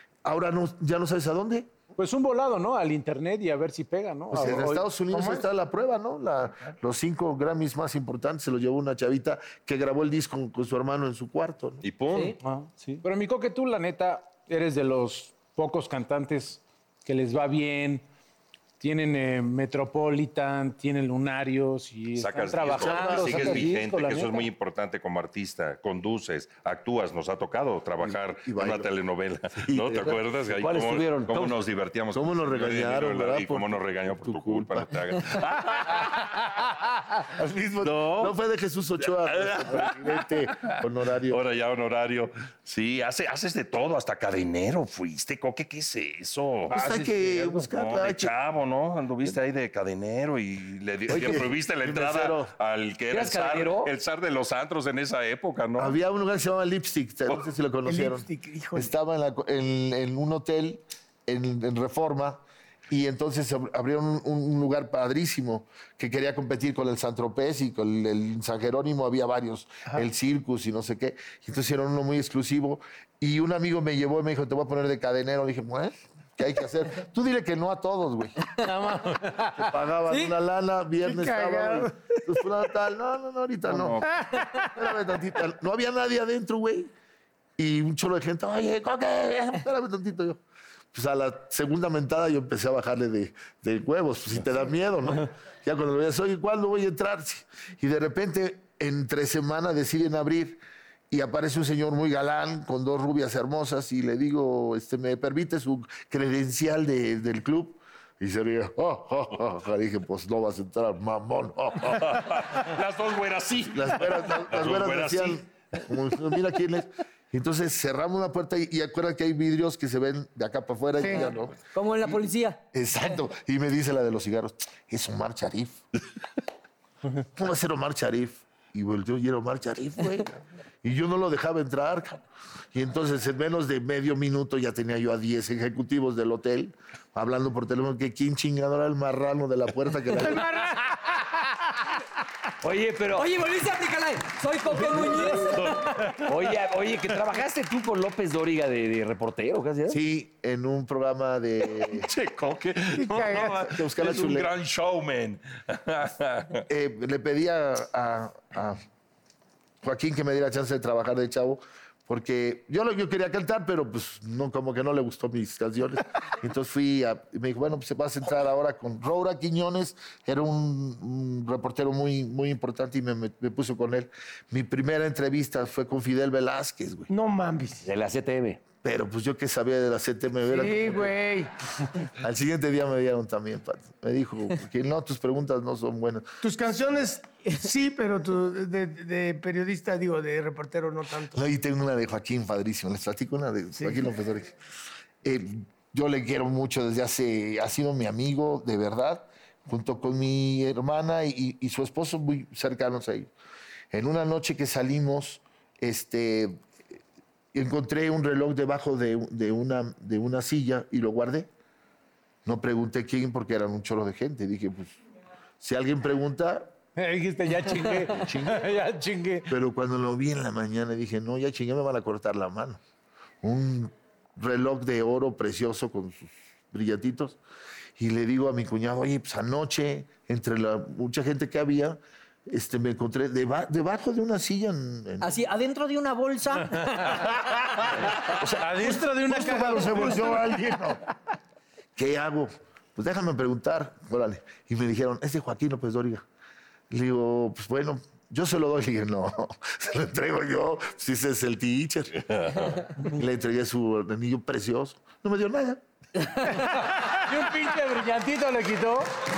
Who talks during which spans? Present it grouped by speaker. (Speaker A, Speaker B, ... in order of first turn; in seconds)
Speaker A: 0.2-1.7, 4.3-11.8, 23.1-23.4, 28.0-28.9, 29.6-30.2, 32.1-35.5, 37.3-41.4, 46.7-48.3, 51.1-52.5, 55.8-78.4, 79.6-84.0, 84.8-86.9, 87.6-90.4, 90.9-112.5, 113.7-121.6, 122.7-125.8, 127.3-132.2, 132.7-140.6, 149.9-152.1, 153.7-154.5, 156.7-158.8, 159.8-177.1, 178.8-181.2, 182.2-186.3, 191.3-194.6, 195.2-203.3, 203.9-206.6, 207.5-211.5, 212.4-215.0, 215.6-216.8, 218.1-218.7, 219.5-222.8, 223.4-227.4, 228.0-235.3, 238.3-241.0, 242.0-246.2, 246.9-252.3, 253.0-255.8
Speaker B: 2.0-4.9, 12.4-18.1, 18.8-24.5, 78.5-80.3, 84.4-84.7, 217.0-219.5, 236.7-237.5, 238.6-240.8, 256.5-259.1
Speaker C: 5.1-5.5, 57.9-58.9, 81.0-81.9, 121.0-121.3, 140.2-140.8, 153.0-153.7, 177.1-177.9, 180.5-181.5, 186.4-191.4
Speaker D: 11.8-12.4, 22.2-36.4, 37.9-38.3, 39.1-56.0, 83.7-84.1, 111.8-115.5, 145.5-146.3, 151.8-156.7, 252.2-252.9
Speaker E: 22.8-23.8, 30.5-31.6, 51.1-51.5, 53.1-53.9, 142.6-143.3, 144.8-145.3, 146.2-150.0, 177.8-178.6
Speaker F: 121.7-122.6, 143.1-145.9, 235.2-237.2